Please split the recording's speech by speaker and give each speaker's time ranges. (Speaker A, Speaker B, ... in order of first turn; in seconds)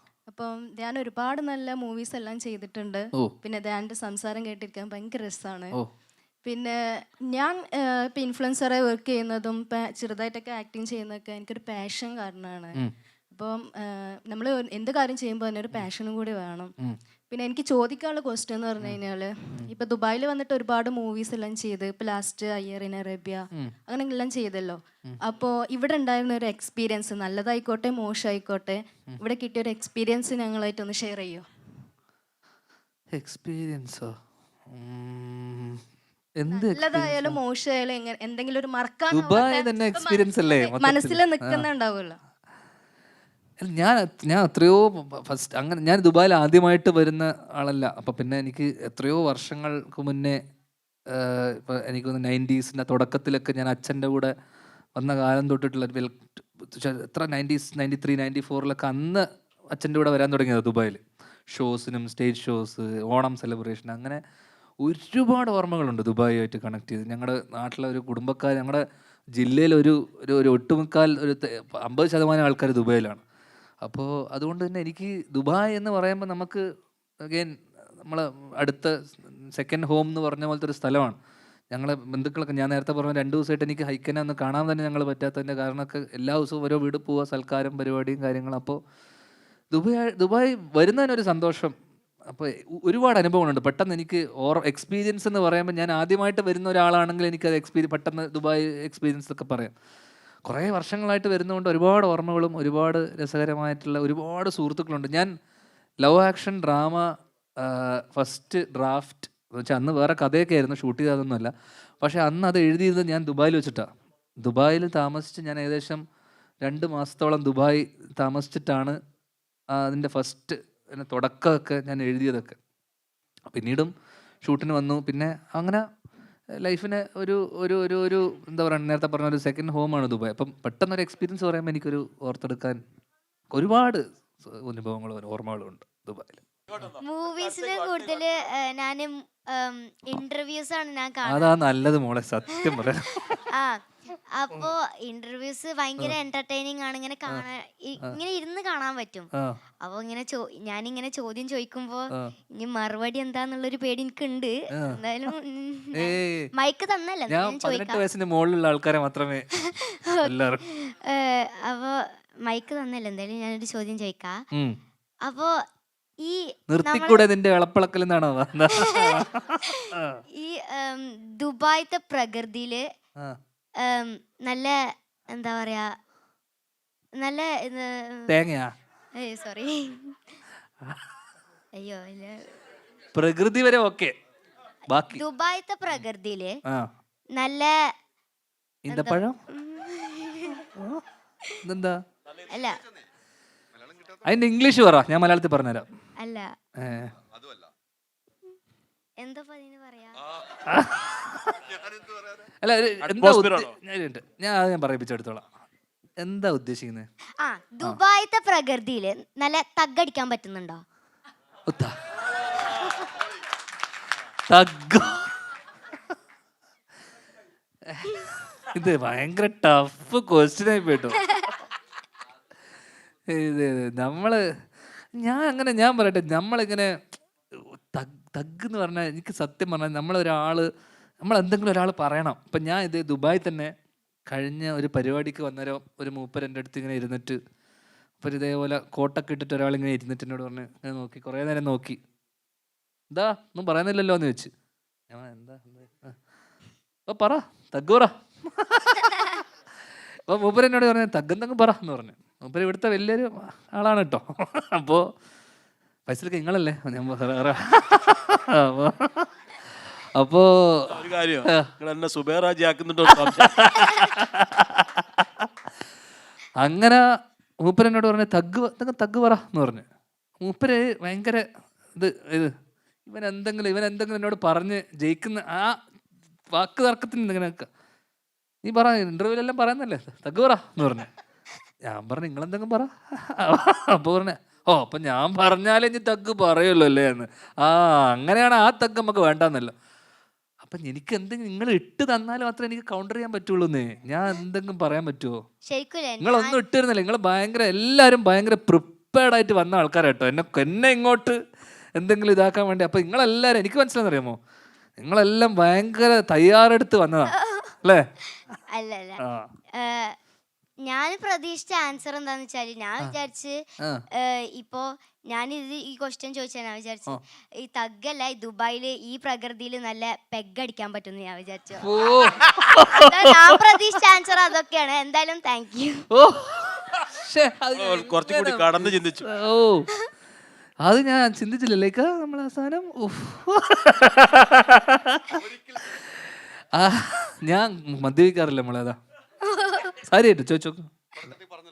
Speaker A: 0.3-5.8, 6.5-12.8, 13.3-16.7, 17.3-31.4, 36.5-42.2
Speaker B: 33.1-34.1, 34.7-35.8, 36.4-37.4, 39.1-41.7, 43.6-50.4, 51.1-54.3, 55.0-64.2, 64.8-68.8, 69.4-73.2, 73.8-76.6, 77.3-77.5, 78.0-81.2, 81.7-88.8, 89.7-91.7, 92.3-99.7, 100.5-105.3, 106.0-107.0, 107.6-113.9, 114.4-116.0, 116.6-119.0, 119.8-122.6, 123.5-123.9, 124.4-125.8, 126.6-132.8, 133.5-136.9, 141.3-143.4, 154.7-155.0, 155.9-156.5, 157.3-159.5, 160.2-160.6, 166.7-170.2, 178.3-178.7, 183.1-184.1, 184.9-185.2, 188.8-189.4, 190.8-191.0, 191.6-192.0, 194.2-195.9, 196.8-197.2, 200.7-201.8, 202.6-205.5, 206.2-207.1, 211.7-211.9, 212.5-213.1, 214.5-215.4, 217.9-221.2, 223.3-224.4, 225.2-226.9, 227.5-230.7, 231.2-233.7, 234.3-237.4, 238.2-242.0, 243.1-244.5, 245.1-246.2, 247.1-249.5, 250.3-255.1, 256.1-259.3, 260.2-261.7, 263.1-265.5, 266.6-267.0, 267.6-269.9, 270.4-271.4, 272.0-272.5, 273.1-275.8, 276.5-277.7, 278.6-281.1, 281.9-289.7, 290.6-295.4, 296.2-301.4, 302.0-304.4, 305.0-308.0, 309.2-309.5, 321.8-323.6, 326.1-329.9, 330.8-339.0, 340.0-341.4
Speaker C: 137.0-141.5, 142.7-143.8, 144.4-149.3, 149.8-158.0, 160.7-164.4, 165.3-165.5, 166.2-167.2, 168.8-169.8, 170.4-172.8, 173.8-174.8, 175.3-175.9, 177.2-178.3, 179.2-180.2, 181.8-182.6, 185.1-186.6, 187.4-187.7, 188.9-190.7, 192.5-192.8, 196.2-196.5, 199.2-200.2, 207.4-210.8, 295.7-296.6, 307.3-307.8, 308.7-309.2, 309.8-310.1, 310.9-313.6, 314.2-321.9, 322.9-326.1, 339.5-339.9
Speaker D: 203.1-203.8, 260.9-263.8, 327.8-329.2